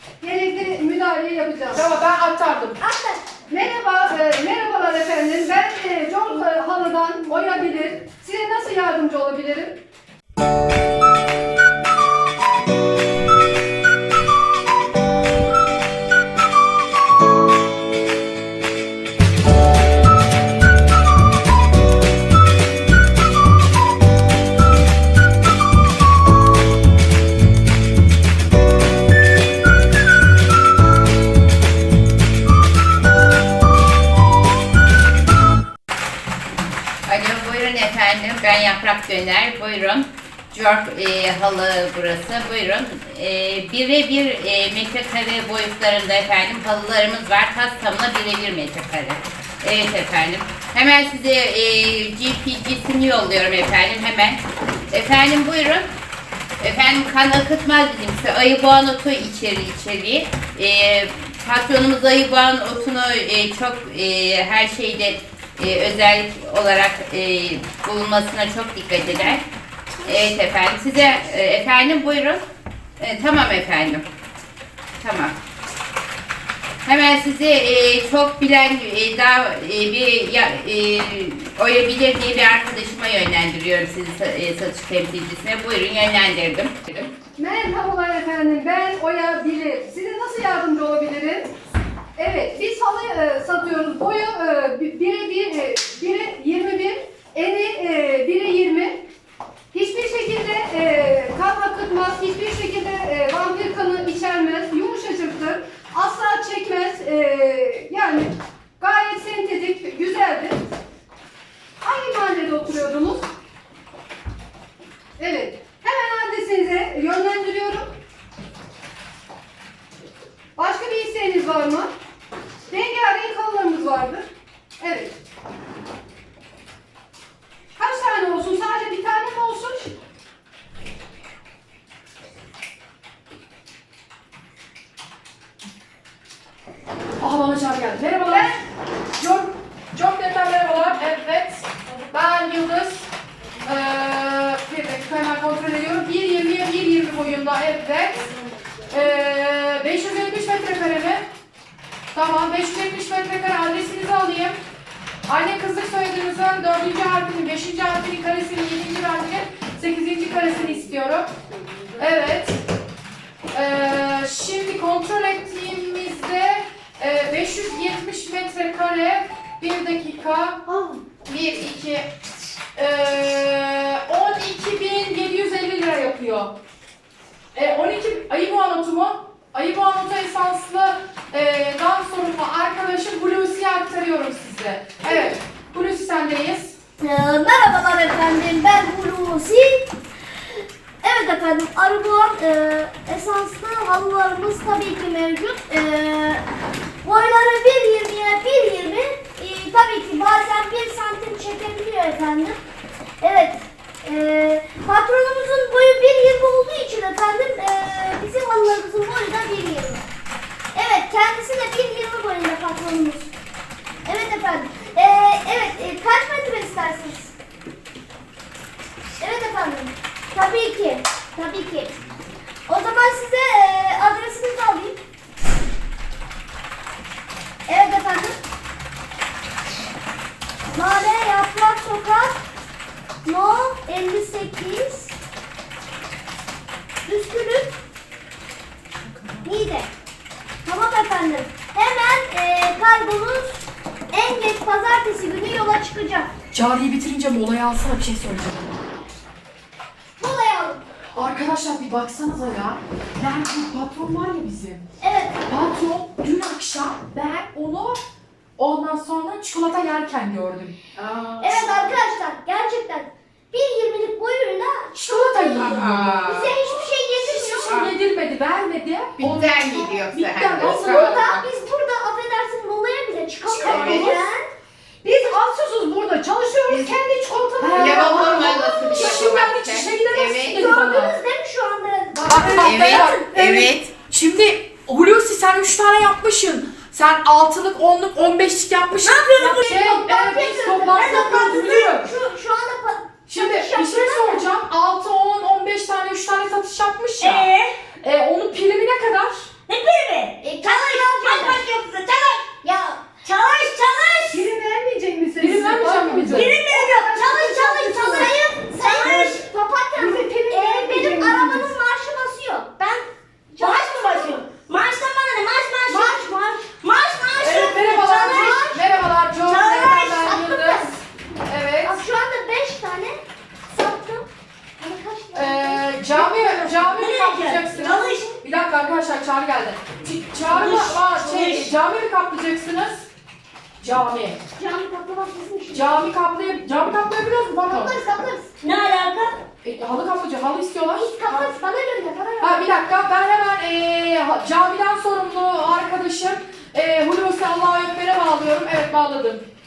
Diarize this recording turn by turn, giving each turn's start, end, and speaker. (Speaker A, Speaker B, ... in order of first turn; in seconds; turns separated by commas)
Speaker A: 0.2-1.9, Speaker B: 1.7-2.8, Speaker C: 2.8-3.2, Speaker A: 3.5-9.8, Speaker D: 37.1-54.4, Speaker D: 54.9-55.9, Speaker D: 56.6-69.4, Speaker D: 70.0-72.4, Speaker D: 73.0-74.0, Speaker D: 75.0-75.3, Speaker D: 76.8-87.1, Speaker A: 87.4-91.5, Speaker A: 92.2-99.0, Speaker A: 99.7-110.6, Speaker A: 111.8-113.3, Speaker A: 115.2-117.9, Speaker A: 120.6-121.9, Speaker A: 122.7-124.3, Speaker A: 124.8-125.2, Speaker A: 127.8-129.9, Speaker B: 137.2-138.6, Speaker A: 138.3-138.6, Speaker B: 139.2-143.1, Speaker B: 143.6-148.3, Speaker B: 148.9-151.3, Speaker B: 152.1-154.6, Speaker B: 155.3-161.3, Speaker B: 162.0-162.6, Speaker B: 163.5-170.7, Speaker B: 171.2-172.1, Speaker B: 172.8-176.6, Speaker B: 177.5-186.8, Speaker C: 185.0-185.3, Speaker C: 187.0-189.9, Speaker C: 191.0-196.4, Speaker C: 197.0-202.6, Speaker C: 203.2-210.0, Speaker C: 210.7-213.3, Speaker C: 214.1-217.3, Speaker C: 219.2-221.9, Speaker C: 222.7-225.0, Speaker C: 227.7-228.4, Speaker C: 230.7-232.4, Speaker C: 233.2-235.2, Speaker C: 237.1-237.8, Speaker C: 239.4-239.9, Speaker C: 240.6-246.3, Speaker B: 246.5-248.7, Speaker C: 250.2-250.8, Speaker B: 251.2-254.8, Speaker C: 255.0-255.4, Speaker B: 255.5-258.0, Speaker B: 258.6-262.0, Speaker C: 261.4-267.9, Speaker B: 264.9-266.3, Speaker D: 265.6-266.6, Speaker B: 267.2-271.4, Speaker D: 267.7-267.9, Speaker D: 269.2-271.4, Speaker C: 270.6-274.5, Speaker A: 273.6-274.0, Speaker B: 273.6-274.2, Speaker D: 273.7-274.2, Speaker A: 275.0-279.4, Speaker B: 277.6-278.3, Speaker D: 277.8-280.7, Speaker B: 278.9-281.2, Speaker C: 280.6-283.3, Speaker B: 282.2-292.1, Speaker D: 282.6-283.9, Speaker A: 283.4-283.7, Speaker E: 289.0-289.8, Speaker C: 289.4-294.5, Speaker E: 290.9-291.4, Speaker B: 293.3-297.5, Speaker E: 297.2-297.8, Speaker B: 298.0-299.5, Speaker E: 299.7-302.5, Speaker C: 300.4-301.6, Speaker C: 302.6-303.0, Speaker E: 303.2-304.5, Speaker A: 304.3-308.4, Speaker B: 305.4-306.6, Speaker E: 306.3-307.1, Speaker C: 307.1-314.4, Speaker E: 308.8-309.4, Speaker A: 309.0-309.4, Speaker A: 310.0-311.7, Speaker E: 313.6-316.2, Speaker C: 315.9-316.7, Speaker E: 316.8-318.6, Speaker B: 317.4-320.9, Speaker C: 317.5-318.9, Speaker E: 319.4-320.3, Speaker C: 320.1-321.0, Speaker B: 321.5-322.0, Speaker C: 321.8-324.3, Speaker C: 324.8-326.5, Speaker B: 325.4-333.1, Speaker E: 326.1-328.4, Speaker E: 330.4-331.8, Speaker B: 333.8-334.4, Speaker C: 334.6-336.0, Speaker B: 335.7-338.0, Speaker C: 337.6-338.6, Speaker E: 338.6-339.4, Speaker B: 339.6-341.4, Speaker C: 340.9-342.7, Speaker B: 342.4-349.4